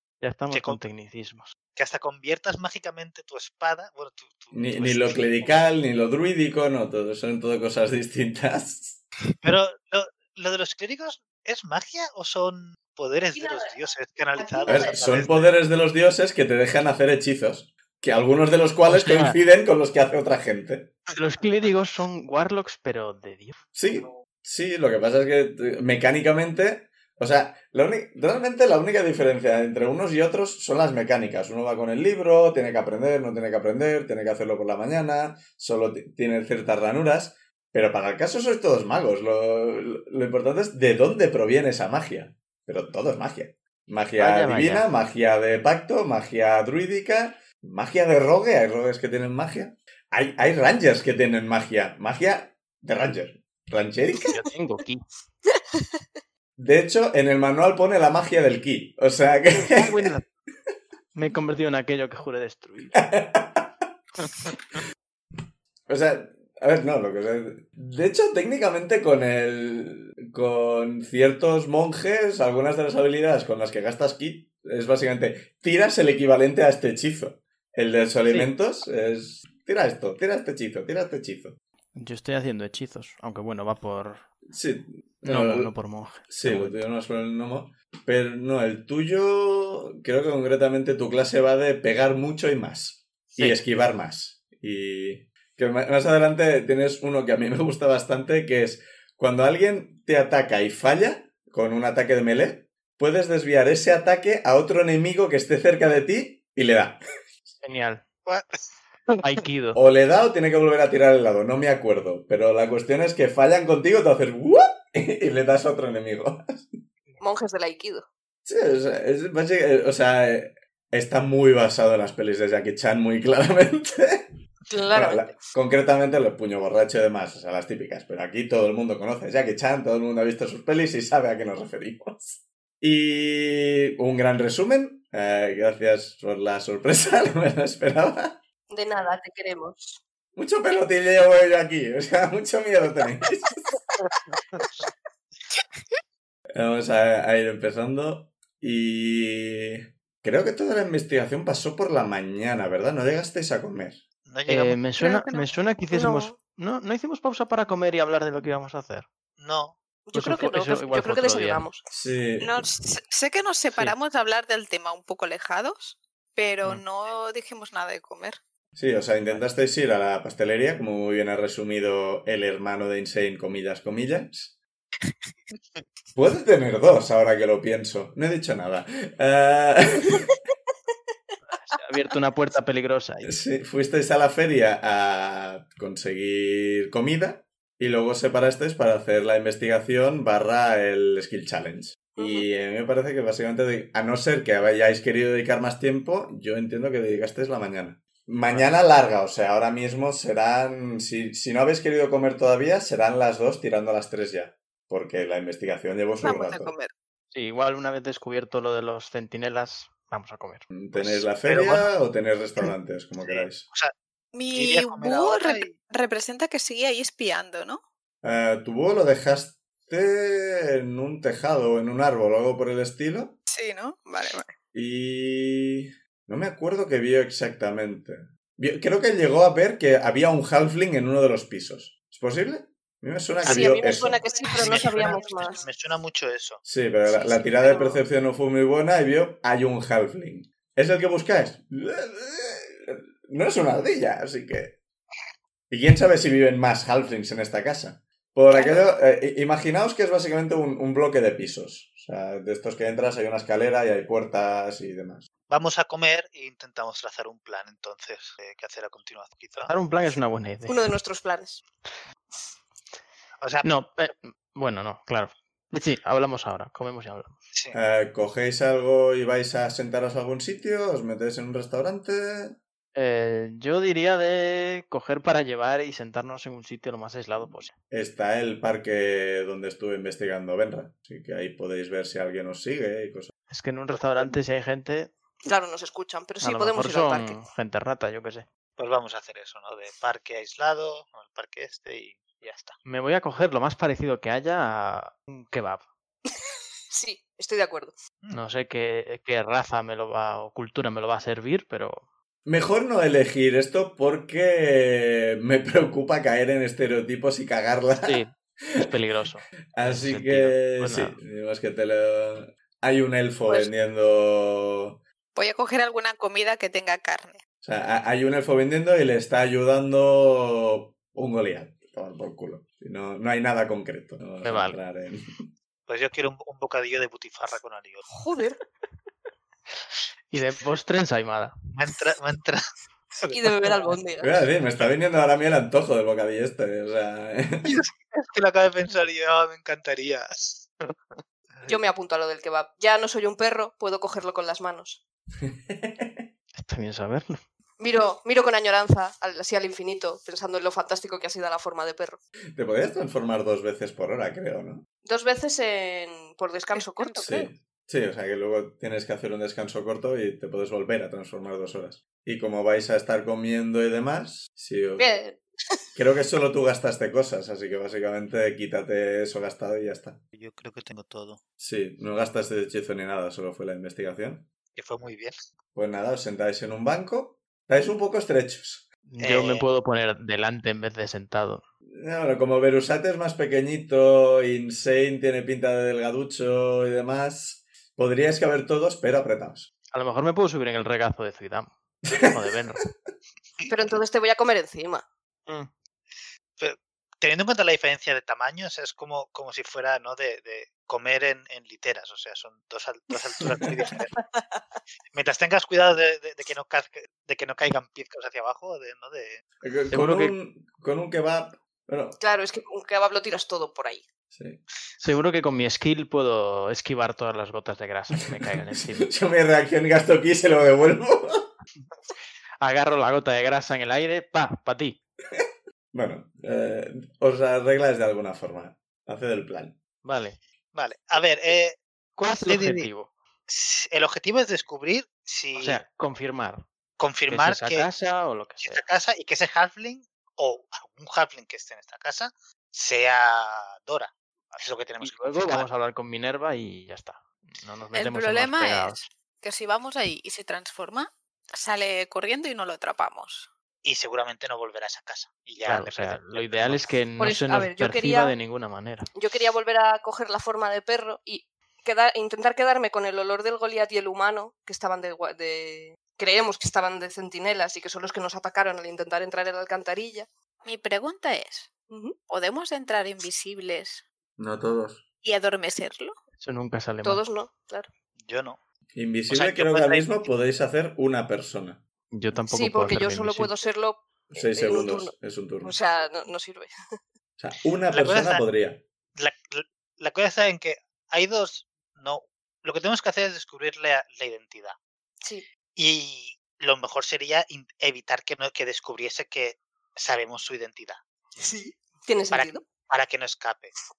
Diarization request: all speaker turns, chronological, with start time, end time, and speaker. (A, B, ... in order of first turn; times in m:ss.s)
0:00.2-0:01.5 A
0:00.5-0:00.8 B
0:01.7-0:05.5 B
0:04.5-0:09.0 C
0:09.4-0:15.5 B
0:14.4-0:15.0 D
0:14.7-0:21.0 C
0:18.8-0:19.4 A
0:21.2-0:23.6 A
0:23.7-0:54.4 C
0:44.2-0:44.9 A
0:54.3-0:55.0 A
0:56.6-1:00.1 C
0:59.5-1:00.2 A
1:01.1-1:03.0 A
1:02.9-1:03.7 C
1:05.9-1:21.6 C
1:21.9-1:24.3 A
1:24.5-1:25.7 C
1:25.2-1:26.8 A
1:26.3-1:47.0 C
1:47.6-1:48.0 A
1:48.2-1:48.6 B
1:49.2-1:49.8 A
1:49.7-1:56.7 C
1:57.2-1:58.0 D
1:58.4-2:04.3 C
2:04.7-2:05.4 D
2:04.9-2:18.4 C
2:18.7-2:20.0 D
2:20.3-2:23.8 C
2:26.6-2:34.0 C
2:34.3-2:34.8 B
2:34.5-2:39.1 A
2:35.0-2:35.4 E
2:35.9-2:36.3 D
2:39.4-2:39.8 B
2:40.1-2:41.8 D
2:40.1-2:41.7 A
2:41.9-2:42.7 C
2:42.4-2:48.4 E
2:48.8-2:54.5 C
2:56.1-3:00.3 C
3:01.7-3:03.3 A
3:03.2-3:26.7 C
3:12.2-3:12.4 D
3:26.2-3:26.9 E
3:27.3-3:31.3 A
3:30.7-3:33.7 C
3:31.4-3:31.9 B
3:33.2-3:33.9 B
3:34.3-3:37.8 E
3:34.5-3:35.8 B
3:38.2-3:43.4 C
3:43.5-3:44.5 E
3:44.7-3:54.2 C
3:53.4-3:53.8 B
3:53.4-3:55.6 D
3:54.5-3:56.6 B
3:56.6-4:04.8 C
3:57.2-3:58.0 D
4:05.7-4:15.3 C
4:08.5-4:08.8 D
4:15.5-4:19.7 B
4:19.6-4:20.9 A
4:20.7-4:21.6 D
4:23.4-4:23.6 B
4:23.6-4:27.4 A
4:27.7-4:32.6 C
4:32.9-4:37.7 A
4:37.9-4:43.3 C
4:43.5-4:45.1 A
4:45.4-4:47.4 D
4:46.4-4:48.5 A
4:48.8-4:52.8 B
4:52.8-4:55.8 A
4:56.9-4:57.9 D
4:58.3-5:02.0 A
5:02.4-5:08.2 C
5:08.0-5:11.2 A
5:09.7-5:15.0 C
5:15.3-5:17.4 E
5:17.6-5:25.5 C
5:24.4-5:24.8 A
5:25.9-5:28.0 B
5:28.1-5:28.6 D
5:30.3-5:31.5 A
5:31.7-5:32.6 B
5:33.2-5:33.9 B
5:33.3-5:34.4 D
5:34.2-5:37.7 C
5:37.6-5:40.7 B
5:41.6-5:45.0 D
5:45.4-5:46.3 C
5:46.6-5:47.4 A
5:47.8-5:52.2 D
5:52.5-5:54.8 C
5:55.0-5:57.4 D
5:56.7-5:57.4 E
5:57.2-6:05.1 C
6:05.0-6:05.8 D
6:06.0-6:10.2 C
6:10.3-6:11.4 B
6:11.6-6:14.5 C
6:14.7-6:15.4 B
6:15.7-6:18.9 C
6:19.0-6:21.6 A
6:19.2-6:19.6 B
6:21.9-6:29.7 C
6:29.9-6:32.8 A
6:32.1-6:32.4 C
6:33.7-6:35.0 D
6:36.6-6:44.2 B
6:45.1-6:49.4 B
6:49.6-6:52.2 C
6:49.9-6:50.3 A
6:52.2-6:54.0 D
6:54.3-6:54.6 C
6:55.0-6:59.1 A
6:58.3-7:01.5 C
7:02.6-7:05.0 A
7:05.3-7:09.8 C
7:10.0-7:10.4 A
7:10.7-7:11.8 B
7:12.2-7:13.1 A
7:12.4-7:12.9 B
7:13.5-7:15.8 B
7:15.6-7:16.6 A
7:17.0-7:17.9 B
7:17.3-7:18.8 A
7:18.6-7:25.6 B
7:25.0-7:29.0 A
7:27.9-7:33.5 E
7:33.8-7:36.8 B
7:35.6-7:39.1 A
7:37.2-7:38.3 D
7:39.1-7:50.3 D
7:50.6-7:51.7 E
7:51.9-7:52.2 D
7:52.3-7:54.0 E
7:54.4-7:55.0 C
7:55.2-7:56.2 E
7:56.4-7:57.2 A
7:57.0-7:57.9 D
7:58.2-7:58.6 B
7:58.9-8:01.8 C
7:59.3-8:00.1 B
8:02.1-8:03.5 A
8:02.5-8:06.7 D
8:04.3-8:05.8 C
8:07.4-8:08.8 C
8:07.9-8:08.4 B
8:09.2-8:14.8 B
8:15.7-8:21.0 B
8:21.4-8:22.6 D
8:22.3-8:23.7 B